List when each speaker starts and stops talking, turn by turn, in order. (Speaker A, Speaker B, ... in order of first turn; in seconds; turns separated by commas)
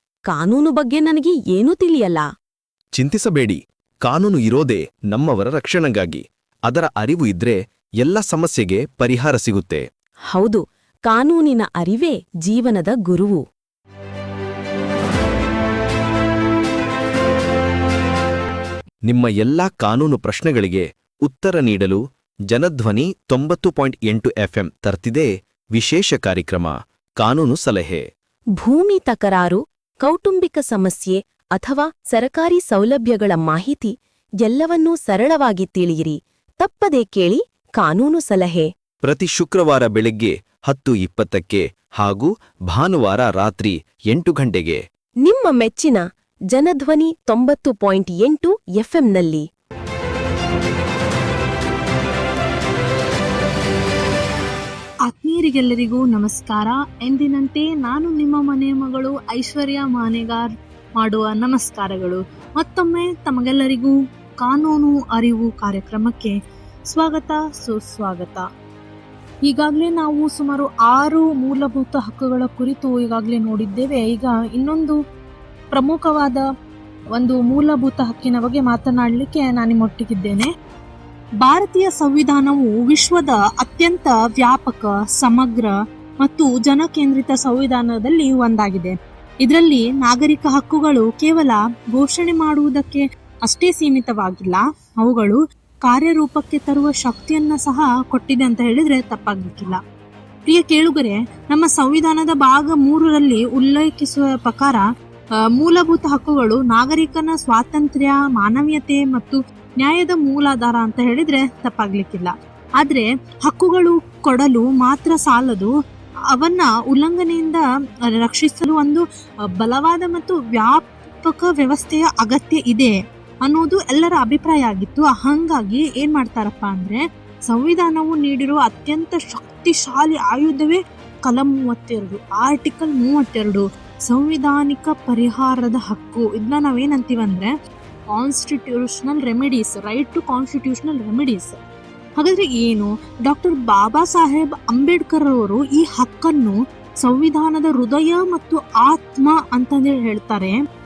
Speaker A: 0.3-2.3, Speaker B: 3.0-9.8, Speaker A: 10.3-13.4, Speaker B: 19.1-28.0, Speaker A: 28.6-38.7, Speaker B: 39.0-44.8, Speaker A: 45.2-49.4, Speaker C: 55.1-66.3, Speaker C: 66.9-68.4, Speaker C: 69.5-75.0, Speaker C: 75.7-76.4, Speaker C: 77.2-80.5, Speaker C: 81.4-99.8, Speaker C: 100.5-104.8, Speaker C: 105.5-115.7, Speaker C: 116.3-122.9, Speaker C: 123.5-137.5, Speaker C: 138.2-141.6, Speaker C: 142.2-150.6